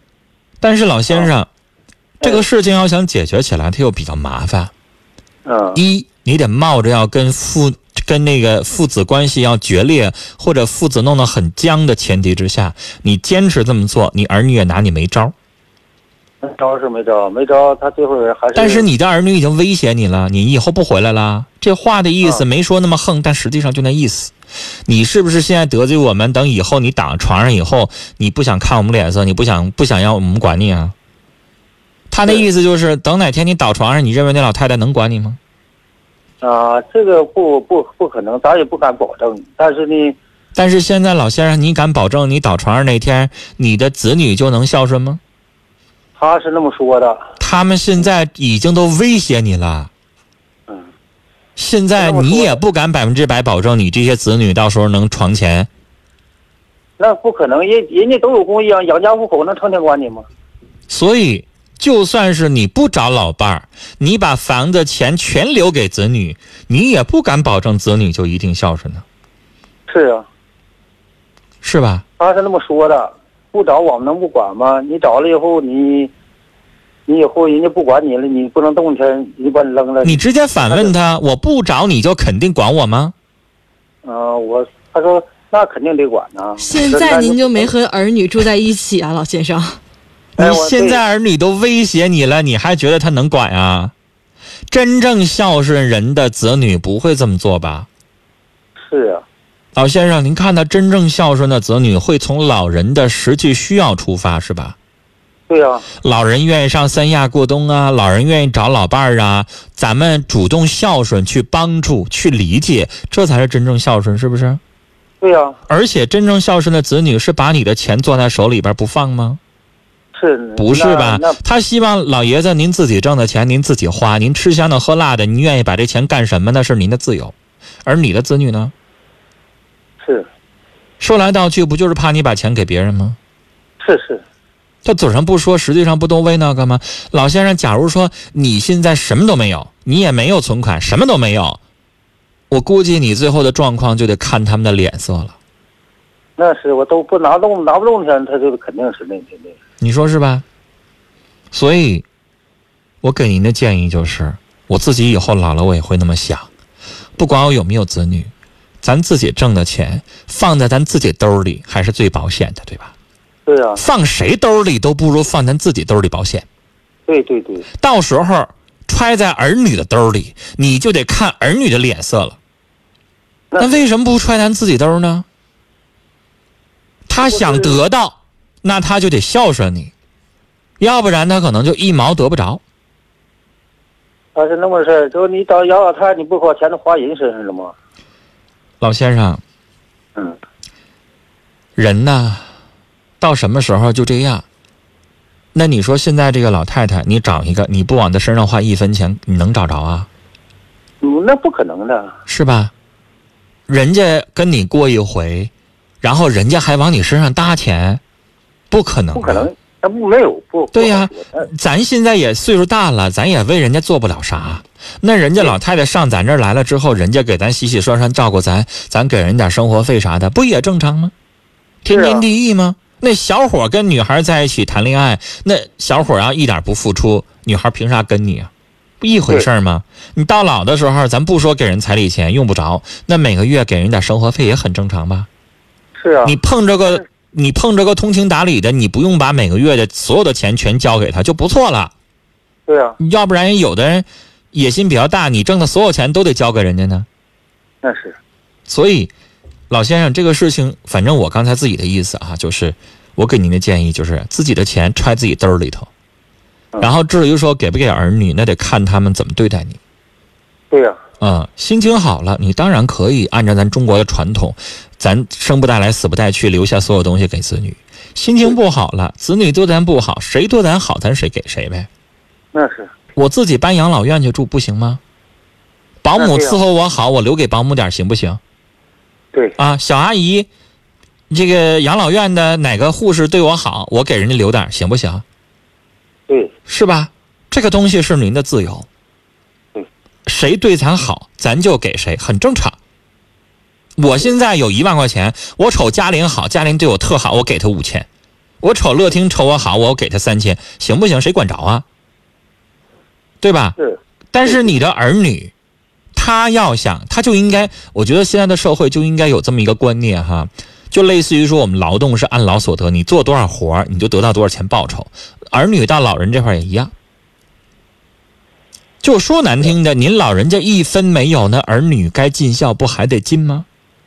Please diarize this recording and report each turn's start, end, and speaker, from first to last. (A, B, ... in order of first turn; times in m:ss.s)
0:00.6-0:01.5 A
0:02.2-0:02.5 B
0:02.2-0:04.7 A
0:05.5-0:05.8 B
0:05.8-0:15.3 A
0:16.4-0:18.9 B
0:18.5-0:24.3 A
0:24.8-0:30.9 A
0:32.1-0:35.4 A
0:36.4-0:40.2 B
0:40.6-0:45.2 A
0:46.2-0:47.2 B
0:47.4-0:49.9 A
0:51.6-0:55.7 A
0:52.0-0:52.6 B
0:57.0-1:00.2 B
1:00.9-1:09.0 A
1:09.9-1:10.2 B
1:11.6-1:12.0 A
1:12.2-1:16.1 B
1:17.1-1:20.9 B
1:20.0-1:23.1 A
1:24.0-1:27.7 B
1:26.6-1:29.8 C
1:30.4-1:31.0 B
1:30.4-1:33.9 A
1:34.7-1:37.9 A
1:38.9-1:39.2 B
1:39.8-1:44.8 A
1:45.5-1:45.9 B
1:46.0-1:54.6 A
1:55.2-1:55.6 B
1:55.7-1:59.4 A
2:00.1-2:01.4 B
2:00.6-2:07.3 A
2:07.8-2:08.7 A
2:10.0-2:10.3 B
2:11.0-2:13.2 A
2:13.8-2:14.2 B
2:14.8-2:21.6 A
2:22.5-2:25.4 A
2:26.4-2:29.6 B
2:29.8-2:30.4 A
2:31.5-2:32.0 A
2:33.0-2:36.5 A
2:37.2-2:38.3 A
2:38.8-2:42.9 A
2:43.4-2:43.8 B
2:43.8-2:46.4 A
2:47.1-2:47.7 B
2:47.8-2:52.4 A
2:53.5-2:53.8 B
2:53.6-2:55.2 A
2:57.1-2:59.9 A
2:57.1-2:57.8 B
3:00.8-3:02.6 A
3:04.4-3:07.7 B
3:08.8-3:09.4 A
3:11.8-3:12.4 A
3:13.2-3:14.4 A
3:15.5-3:20.1 A
3:21.0-3:22.1 B
3:22.3-3:22.7 A
3:23.7-3:25.5 A
3:26.0-3:28.0 A
3:28.7-3:29.5 A
3:29.1-3:31.5 B
3:30.7-3:41.1 A
3:41.8-3:55.3 A
3:41.9-3:42.2 B
3:56.0-3:56.4 B
3:56.2-4:01.9 A
4:02.7-4:03.0 B
4:03.0-4:07.1 A
4:07.8-4:08.2 B
4:08.7-4:09.1 A
4:09.7-4:15.9 A
4:16.8-4:19.8 A
4:20.7-4:21.0 B
4:21.2-4:31.9 A
4:32.5-4:32.9 B
4:33.2-4:35.0 A
4:36.0-4:38.4 A
4:36.2-4:36.6 B
4:39.6-4:40.5 A
4:41.3-4:45.2 A
4:46.7-4:48.9 A
4:50.2-4:52.8 A
4:54.0-4:58.1 A
4:58.6-5:01.8 A
5:03.4-5:03.8 A
5:03.8-5:04.7 B
5:04.3-5:05.5 A
5:06.1-5:16.9 A
5:19.0-5:23.6 A